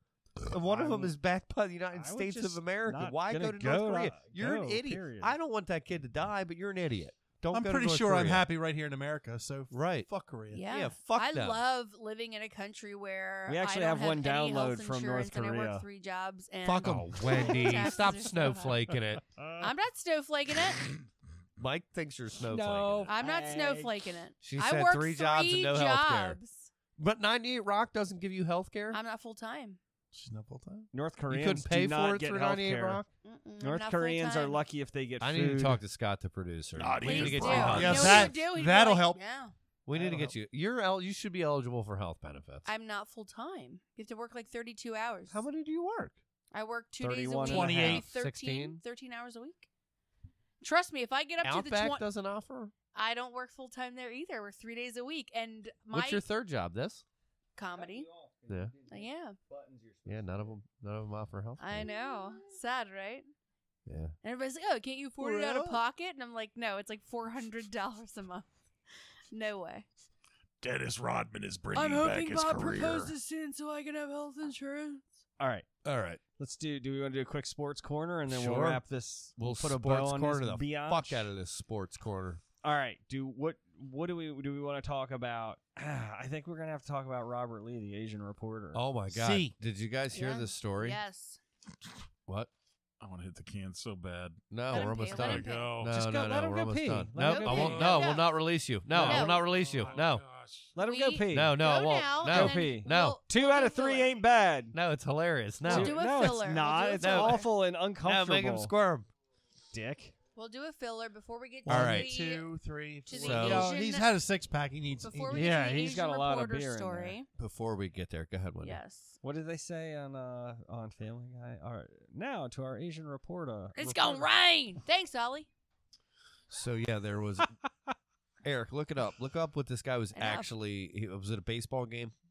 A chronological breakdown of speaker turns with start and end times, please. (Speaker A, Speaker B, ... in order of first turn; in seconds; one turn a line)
Speaker A: 0.4-8.4
Speaker B: 0.6-1.1
Speaker B: 1.9-5.3
Speaker C: 7.5-10.7
Speaker A: 9.7-10.1
Speaker D: 10.5-18.8
Speaker A: 10.6-11.6
Speaker B: 13.5-15.8
Speaker A: 16.6-19.2
Speaker B: 19.4-19.7
Speaker D: 19.6-20.9
Speaker A: 21.6-23.1
Speaker B: 22.5-24.0
Speaker D: 23.1-26.7
Speaker A: 24.4-26.4
Speaker A: 27.0-29.0
Speaker D: 28.9-29.8
Speaker C: 30.1-30.9
Speaker B: 30.9-33.0
Speaker A: 31.3-33.1
Speaker D: 33.2-34.6
Speaker B: 33.6-35.8
Speaker A: 35.2-38.3
Speaker E: 36.8-38.2
Speaker D: 37.0-39.5
Speaker C: 37.6-39.2
Speaker A: 39.9-42.7
Speaker B: 39.9-40.3
Speaker D: 42.6-45.4
Speaker A: 45.3-46.2
Speaker D: 46.5-49.7
Speaker B: 47.0-48.0
Speaker C: 47.4-48.0
Speaker A: 47.8-48.8
Speaker D: 50.6-52.0
Speaker A: 51.4-52.7
Speaker D: 52.9-56.2
Speaker A: 55.9-57.0
Speaker D: 57.5-58.1
Speaker B: 57.7-60.5
Speaker A: 58.5-58.7
Speaker D: 58.9-59.4
Speaker A: 60.0-61.9
Speaker D: 61.6-63.3
Speaker B: 61.9-62.4
Speaker A: 63.9-64.1
Speaker D: 64.2-68.5
Speaker C: 65.2-65.8
Speaker D: 69.3-69.8
Speaker E: 70.6-73.1
Speaker D: 71.7-75.0
Speaker B: 75.4-75.7
Speaker A: 75.8-76.2
Speaker B: 76.4-81.3
Speaker A: 78.3-78.8
Speaker A: 79.4-82.4
Speaker B: 82.6-88.8
Speaker A: 88.7-91.0
Speaker C: 89.1-89.5
Speaker D: 90.1-91.4
Speaker E: 93.0-95.9
Speaker A: 94.5-100.2
Speaker D: 94.7-95.7
Speaker B: 95.8-98.1
Speaker D: 97.2-98.3
Speaker B: 98.9-99.3
Speaker D: 99.0-99.4
Speaker E: 99.4-100.7
Speaker B: 100.7-101.6
Speaker D: 100.8-104.1
Speaker A: 101.3-103.2
Speaker B: 102.2-104.7
Speaker A: 104.7-109.1
Speaker D: 105.6-107.5
Speaker B: 105.7-108.7
Speaker B: 109.7-110.1
Speaker D: 110.3-112.5
Speaker C: 111.7-115.6
Speaker A: 111.7-112.1
Speaker D: 113.0-114.2
Speaker A: 113.1-113.8
Speaker D: 115.0-117.3
Speaker B: 115.3-117.2
Speaker A: 117.4-118.8
Speaker D: 118.6-119.2
Speaker B: 119.2-124.3
Speaker D: 123.8-125.5
Speaker A: 126.5-127.5
Speaker A: 128.4-132.1
Speaker D: 130.1-130.5